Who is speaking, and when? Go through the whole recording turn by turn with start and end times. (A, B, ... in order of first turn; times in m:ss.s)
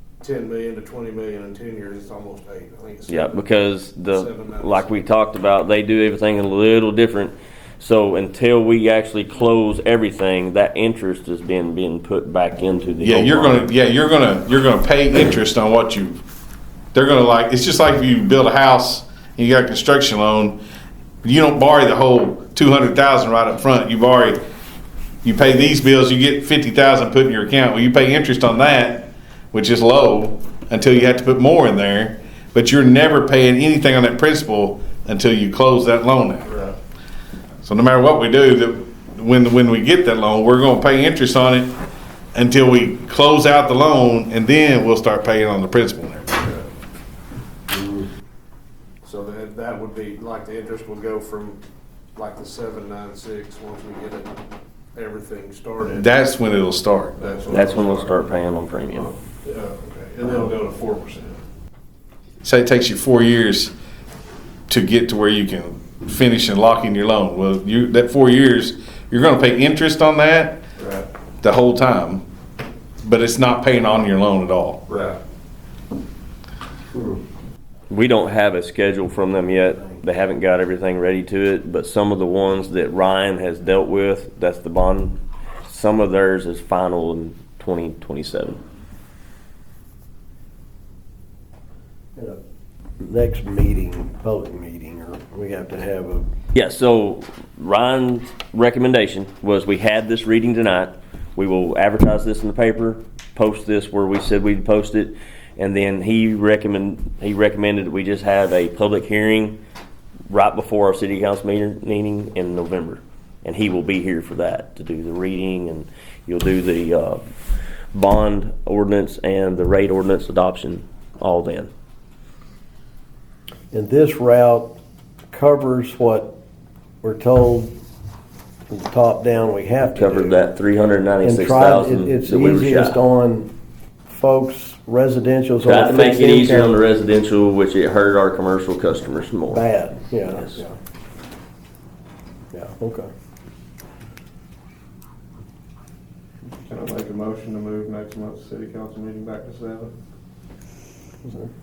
0:00.2-0:03.5 A
0:03.1-0:13.7 B
0:04.1-0:04.9 A
0:13.0-0:16.2 C
0:16.9-0:20.6 C
0:21.2-0:24.4 C
0:25.2-0:36.5 C
0:36.5-0:36.8 A
0:37.6-0:41.8 C
0:42.3-0:46.4 C
0:47.7-0:48.1 D
0:49.0-0:51.6 A
0:52.2-0:54.3 A
0:55.0-0:56.1 A
0:55.9-0:57.4 C
0:57.2-0:58.2 A
0:57.5-0:59.1 B
0:59.0-1:01.4 A
1:02.4-1:03.7 C
1:04.7-1:10.6 C
1:10.8-1:11.0 A
1:11.4-1:12.2 C
1:13.0-1:14.8 C
1:14.9-1:15.2 A
1:17.9-1:28.6 B
1:33.0-1:36.3 D
1:36.5-1:49.6 B
1:50.3-1:57.2 B
1:57.9-2:01.7 B
2:03.7-2:04.7 D
2:05.3-2:06.3 D
2:07.0-2:07.7 D
2:08.7-2:10.5 D
2:09.9-2:13.0 B
2:11.2-2:13.5 D
2:14.1-2:16.8 D
2:15.6-2:19.6 B
2:19.5-2:20.8 D
2:20.3-2:20.6 B
2:22.5-2:23.1 D
2:26.7-2:29.9 A
2:31.2-2:31.5 D